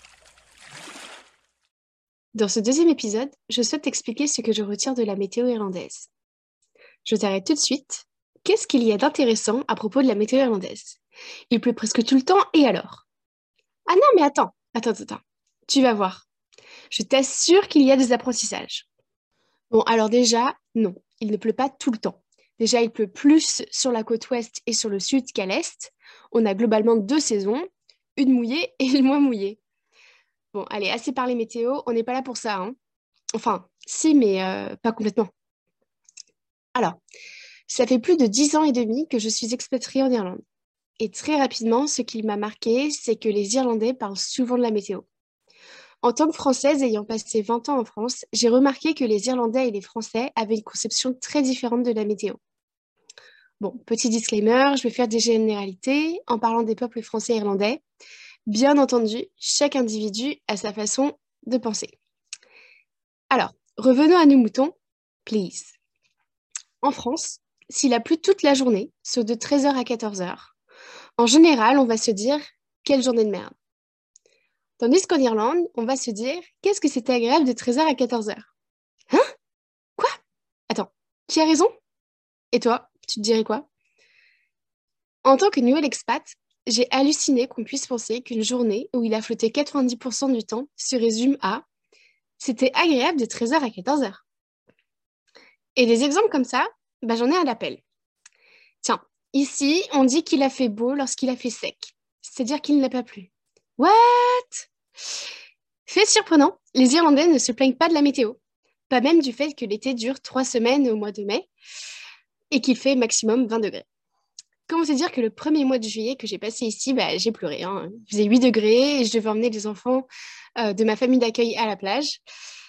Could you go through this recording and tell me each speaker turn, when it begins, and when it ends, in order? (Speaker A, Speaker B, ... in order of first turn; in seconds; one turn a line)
Speaker A: 2.3-6.1
Speaker A: 7.0-11.0
Speaker A: 11.5-13.1
Speaker A: 13.9-16.2
Speaker A: 16.9-18.9
Speaker A: 19.7-29.6
Speaker A: 30.5-32.8
Speaker A: 33.4-35.3
Speaker A: 37.7-40.4
Speaker A: 41.0-45.1
Speaker A: 46.0-52.4
Speaker A: 53.6-57.8
Speaker A: 58.5-62.0
Speaker A: 63.3-65.8
Speaker A: 66.8-70.5
Speaker A: 71.2-73.5
Speaker A: 74.8-78.5
Speaker A: 80.7-81.7
Speaker A: 82.5-83.7
Speaker A: 85.2-91.6
Speaker A: 92.4-94.2
Speaker A: 95.8-97.8
Speaker A: 98.8-104.7
Speaker A: 105.9-108.4
Speaker A: 108.9-111.5
Speaker A: 112.5-113.8
Speaker A: 114.7-122.2